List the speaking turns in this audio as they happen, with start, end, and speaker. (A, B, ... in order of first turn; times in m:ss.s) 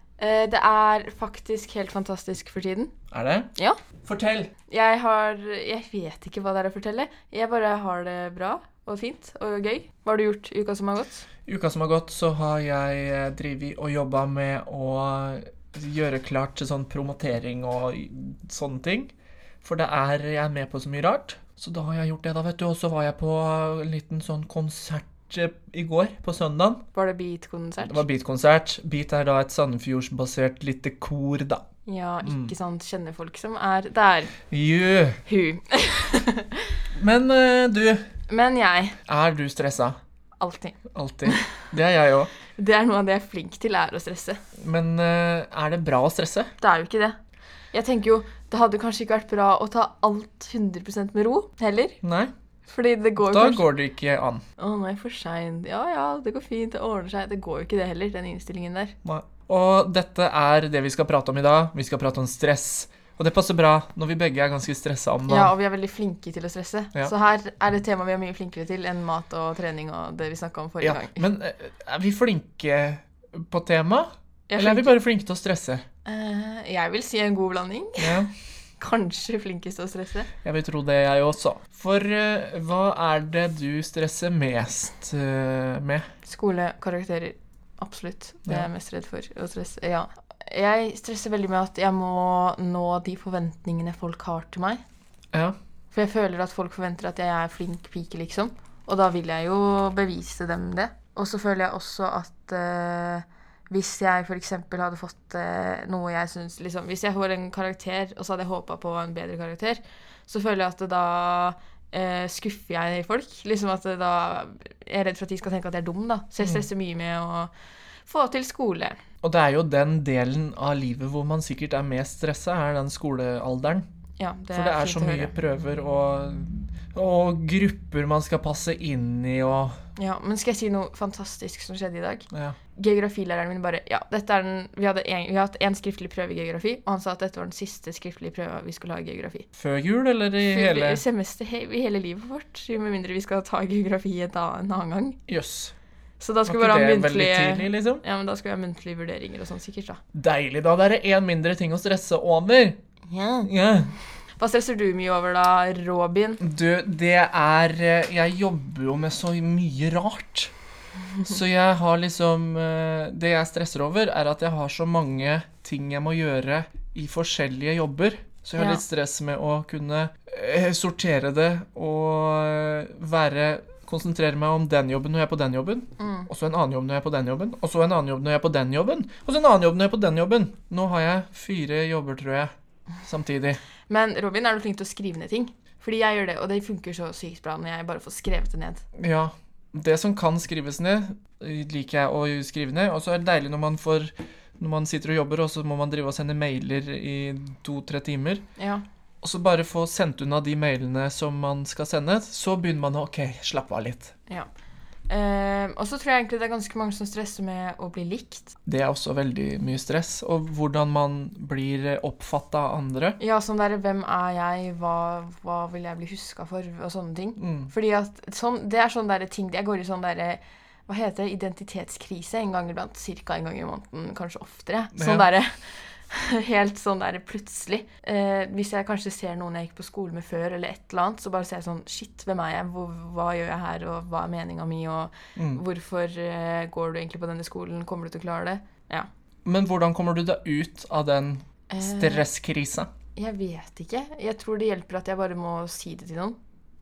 0:00.2-0:02.9 A
0:03.1-0:03.5 B
0:04.0-0:04.5 B
0:04.7-0:11.2 A
0:11.5-0:26.8 B
0:26.9-0:28.0 A
0:27.8-0:31.6 B
0:31.8-0:34.3 A
0:32.2-0:32.5 B
0:34.5-0:35.2 B
0:35.2-0:36.8 A
0:36.9-0:38.0 B
0:38.3-0:39.0 A
0:39.1-0:40.0 B
0:40.4-0:41.5 A
0:40.9-0:42.3 B
0:42.5-0:44.4 A
0:44.6-0:46.5 B
0:46.6-0:47.2 A
0:47.7-0:52.0 A
0:52.0-0:52.3 B
0:52.6-0:53.6 A
0:53.2-0:54.4 B
0:54.6-0:59.0 A
0:59.0-1:05.5 B
1:05.3-1:11.2 A
1:10.8-1:15.8 B
1:14.5-1:15.0 A
1:16.0-1:18.2 A
1:18.0-1:18.3 B
1:18.8-1:20.3 A
1:20.4-1:26.1 B
1:26.2-1:34.8 A
1:35.9-1:57.5 A
1:58.0-1:59.0 A
1:59.2-2:03.8 B
2:04.2-2:05.3 A
2:04.5-2:09.8 B
2:10.0-2:19.5 A
2:12.3-2:12.6 B
2:19.6-2:21.0 B
2:20.4-2:25.2 A
2:25.3-2:25.7 B
2:26.2-2:30.0 A
2:26.4-2:28.0 B
2:30.1-2:32.8 B
2:33.1-2:33.5 A
2:33.4-2:33.9 B
2:34.4-2:36.4 A
2:36.4-2:40.5 B
2:41.2-3:02.5 B
2:48.6-2:48.8 A
2:56.0-2:56.3 A
3:03.0-3:03.6 B
3:03.9-3:08.8 A
3:08.9-3:18.4 B
3:18.6-3:18.8 A
3:19.2-3:24.1 B
3:25.1-3:28.5 A
3:28.6-3:33.2 B
3:33.2-3:59.1 A
3:37.4-3:37.7 B
3:44.9-3:45.3 B
3:55.4-3:55.6 B
3:59.4-4:02.9 B
4:01.7-4:02.3 A
4:03.2-4:06.4 A